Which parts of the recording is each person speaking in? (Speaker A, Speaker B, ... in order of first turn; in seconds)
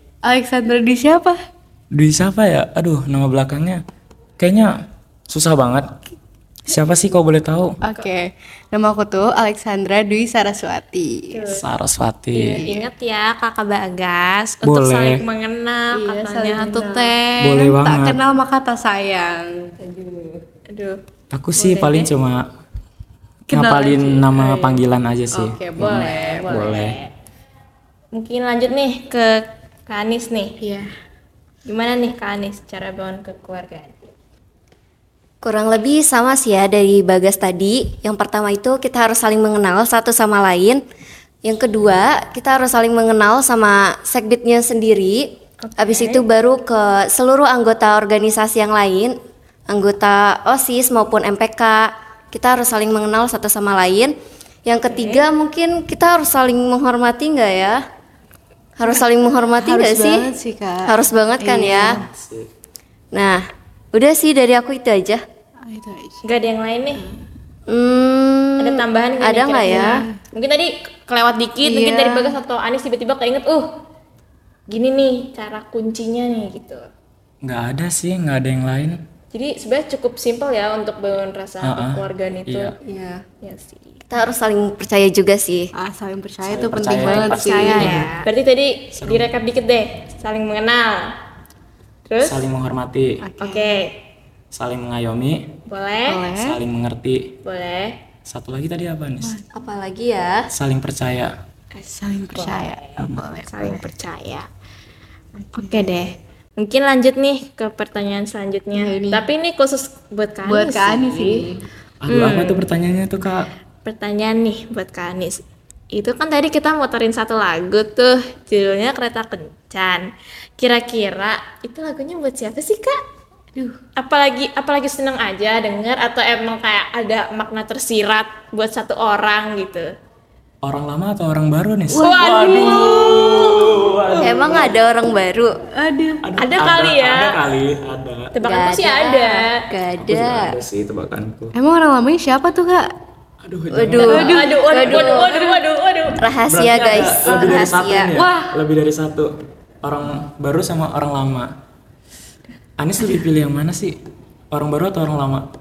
Speaker A: 0.2-1.4, 7.8-11.5, 12.4-12.8, 15.9-19.7, 23.5-24.2, 25.3-26.5, 30.6-30.9, 58.8-62.0, 65.7-66.2, 69.7-70.2, 71.6-72.4, 82.9-83.2, 85.8-88.2, 93.2-93.8, 96.1-96.6, 101.9-103.9, 105.4-106.0, 108.8-109.3, 110.5-111.6, 131.9-133.6, 135.7-136.3, 141.5-142.9, 144.1-145.6, 148.1-148.6
Speaker B: 1.9-3.8, 4.4-4.8, 5.3-5.9, 6.7-7.8, 11.5-12.7, 14.6-15.2, 17.4-18.2, 21.3-22.4, 23.5-27.0, 61.9-62.5, 77.4-79.0, 81.6-82.7, 86.5-88.1, 89.0-89.3, 92.2-93.2, 94.5-95.5, 96.4-97.3, 98.2-99.4, 100.5-101.3, 112.0-113.5, 130.6-134.8, 136.2-138.3, 140.0-141.5, 143.4-144.4, 146.5-149.3, 149.8-151.5, 152.8-154.0, 154.5-155.5
Speaker C: 11.3-11.6, 12.3-17.6, 19.9-21.0, 21.6-22.1, 24.2-24.8, 25.8-27.1, 28.1-30.6, 31.7-34.0, 45.6-46.3, 54.9-55.2, 66.2-67.1, 68.6-73.7, 74.7-76.8, 79.3-82.7, 83.4-84.0, 87.0-91.1, 92.1-92.4, 93.4-94.0, 95.7-96.3, 97.4-98.0, 101.8-104.5, 105.5-111.5, 112.1-112.6, 113.8-123.0, 124.0-129.9, 132.0-133.6, 136.4-137.4, 138.3-139.6, 144.0-146.2
Speaker D: 35.4-40.8, 41.4-49.2, 49.7-54.1, 54.7-57.8, 58.8-60.3, 60.9-62.0, 63.1-65.2, 67.7-70.0, 84.1-85.7, 99.5-100.5, 134.2-135.5, 138.4-140.6, 143.7-145.3, 146.2-148.1